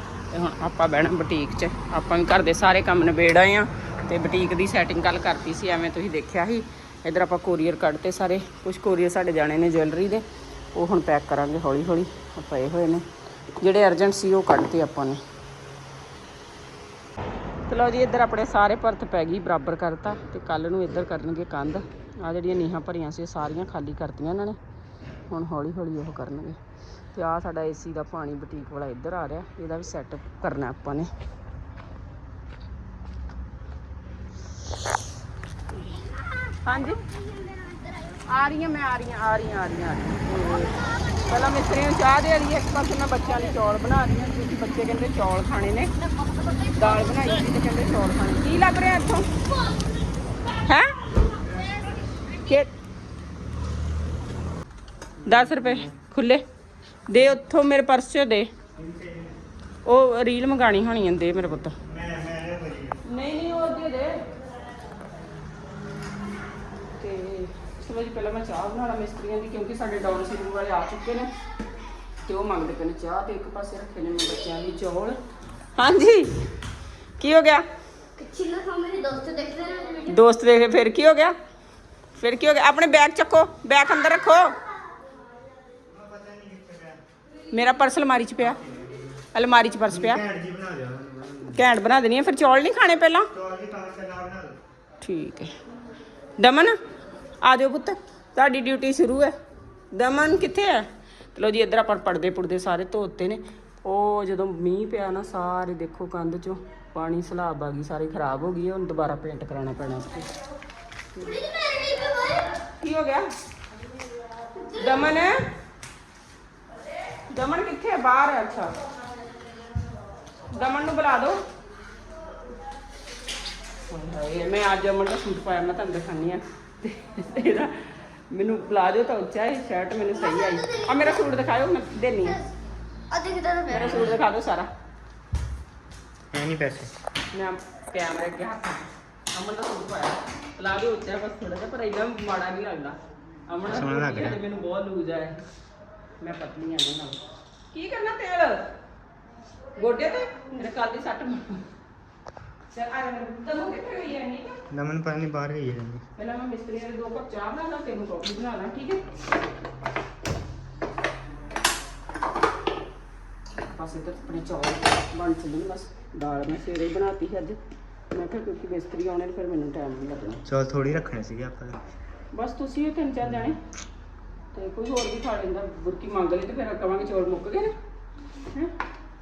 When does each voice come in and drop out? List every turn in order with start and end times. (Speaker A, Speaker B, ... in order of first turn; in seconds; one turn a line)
Speaker A: 0.3-15.2
Speaker A: 17.7-24.6
Speaker A: 25.3-26.6
Speaker A: 27.1-31.1
Speaker B: 35.9-38.2
Speaker A: 36.6-37.0
Speaker A: 38.2-45.9
Speaker B: 40.5-41.6
Speaker B: 46.4-47.2
Speaker A: 46.7-49.3
Speaker B: 49.5-49.9
Speaker A: 50.6-51.0
Speaker B: 51.5-52.0
Speaker A: 52.3-52.7
Speaker A: 55.2-56.4
Speaker C: 55.3-55.8
Speaker A: 57.1-58.5
Speaker C: 58.8-59.4
Speaker A: 59.8-61.7
Speaker C: 61.8-63.0
Speaker A: 63.0-64.2
Speaker A: 67.0-71.3
Speaker A: 72.2-75.2
Speaker A: 75.8-76.4
Speaker A: 77.2-77.6
Speaker B: 78.2-80.1
Speaker A: 80.0-81.3
Speaker A: 82.2-84.5
Speaker C: 85.9-87.0
Speaker A: 87.5-88.6
Speaker C: 88.5-89.0
Speaker A: 89.3-90.2
Speaker C: 89.8-91.6
Speaker A: 91.5-93.3
Speaker C: 93.3-94.6
Speaker A: 95.0-95.5
Speaker A: 96.4-96.8
Speaker A: 97.4-99.3
Speaker A: 99.9-110.3
Speaker B: 111.2-112.5
Speaker A: 112.8-113.3
Speaker B: 114.6-114.9
Speaker A: 114.7-115.4
Speaker A: 117.3-118.7
Speaker A: 120.5-121.4
Speaker A: 123.9-132.4
Speaker B: 130.5-131.0
Speaker B: 133.1-134.0
Speaker A: 133.7-134.7
Speaker C: 133.8-134.1
Speaker C: 136.3-136.9
Speaker A: 137.3-143.0
Speaker A: 143.5-145.4
Speaker C: 143.6-144.4
Speaker A: 146.2-148.7
Speaker A: 149.8-151.7
Speaker A: 152.7-154.6
Speaker C: 154.7-156.0
Speaker A: 156.2-159.1
Speaker A: 163.6-167.6
Speaker A: 168.1-170.4
Speaker C: 170.5-171.8
Speaker A: 172.3-173.6
Speaker A: 174.5-177.8